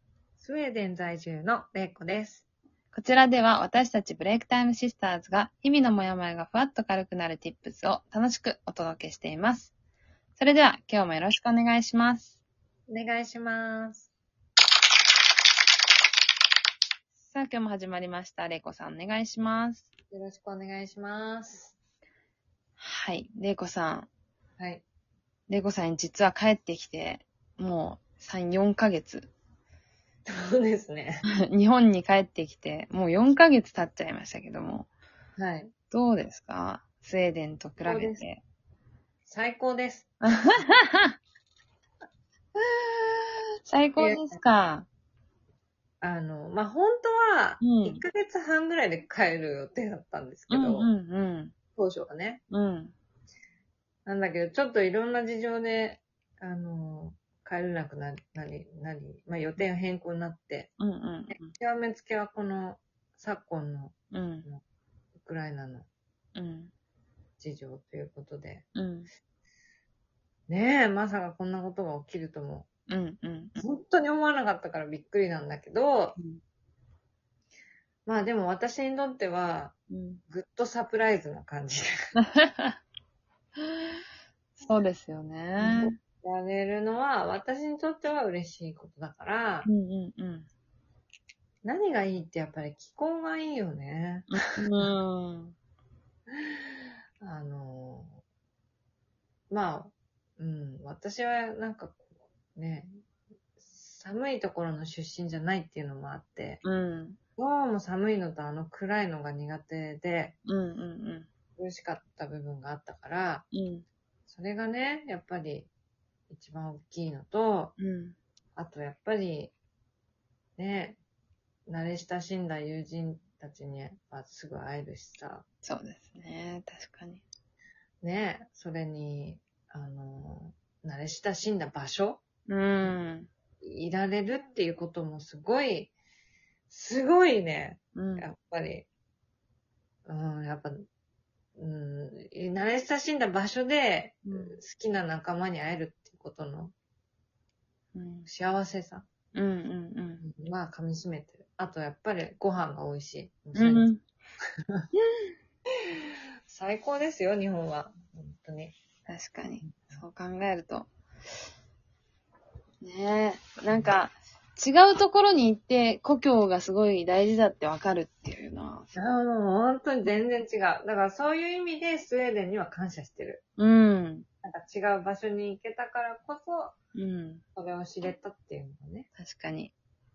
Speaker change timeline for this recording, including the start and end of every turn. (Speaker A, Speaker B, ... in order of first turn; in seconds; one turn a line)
Speaker A: 0.4-2.5
Speaker B: 2.9-9.7
Speaker B: 10.4-12.4
Speaker A: 12.9-14.1
Speaker B: 17.2-19.9
Speaker A: 20.1-21.8
Speaker B: 22.8-24.1
Speaker B: 25.5-29.3
Speaker A: 30.3-31.2
Speaker B: 31.4-34.9
Speaker A: 35.4-35.7
Speaker B: 35.9-38.4
Speaker A: 37.8-38.2
Speaker A: 39.3-40.5
Speaker B: 40.2-41.2
Speaker B: 43.7-44.9
Speaker A: 44.0-44.4
Speaker A: 46.0-50.9
Speaker B: 47.6-48.0
Speaker B: 50.5-51.5
Speaker A: 51.8-52.4
Speaker B: 52.5-52.9
Speaker A: 54.1-60.7
Speaker B: 60.8-61.5
Speaker A: 61.5-64.6
Speaker B: 64.1-64.5
Speaker A: 65.2-65.9
Speaker B: 66.4-66.7
Speaker A: 67.4-68.7
Speaker B: 68.8-69.1
Speaker A: 70.5-72.7
Speaker B: 72.9-73.6
Speaker A: 73.6-76.2
Speaker A: 78.1-79.8
Speaker B: 79.9-80.2
Speaker A: 80.3-81.9
Speaker B: 82.2-82.8
Speaker B: 83.7-84.0
Speaker B: 84.6-86.0
Speaker A: 85.6-89.7
Speaker B: 89.7-90.5
Speaker A: 91.6-94.6
Speaker B: 94.3-95.5
Speaker A: 96.3-98.2
Speaker A: 99.5-102.0
Speaker A: 102.5-102.9
Speaker A: 103.6-106.6
Speaker B: 106.6-107.2
Speaker A: 107.4-110.4
Speaker B: 110.5-111.3
Speaker A: 111.6-113.5
Speaker B: 113.5-113.8
Speaker A: 114.3-115.7
Speaker A: 116.3-117.7
Speaker B: 117.8-118.2
Speaker A: 118.6-119.5
Speaker A: 120.6-121.0
Speaker A: 121.7-125.5
Speaker B: 125.6-127.2
Speaker A: 128.0-132.2
Speaker B: 132.5-133.3
Speaker A: 133.6-135.9
Speaker A: 136.7-138.9
Speaker B: 137.9-138.2
Speaker A: 140.1-140.8
Speaker A: 141.6-146.7
Speaker B: 144.3-144.6
Speaker B: 147.9-148.3
Speaker A: 148.3-149.1
Speaker B: 149.3-150.2
Speaker A: 150.2-153.9
Speaker B: 153.6-154.0
Speaker A: 156.5-158.7
Speaker B: 159.1-160.9
Speaker A: 159.6-160.0
Speaker B: 162.8-168.9
Speaker A: 168.9-173.4
Speaker B: 173.6-174.3
Speaker A: 174.4-176.7
Speaker B: 176.9-177.4
Speaker A: 177.6-179.1
Speaker B: 179.2-179.7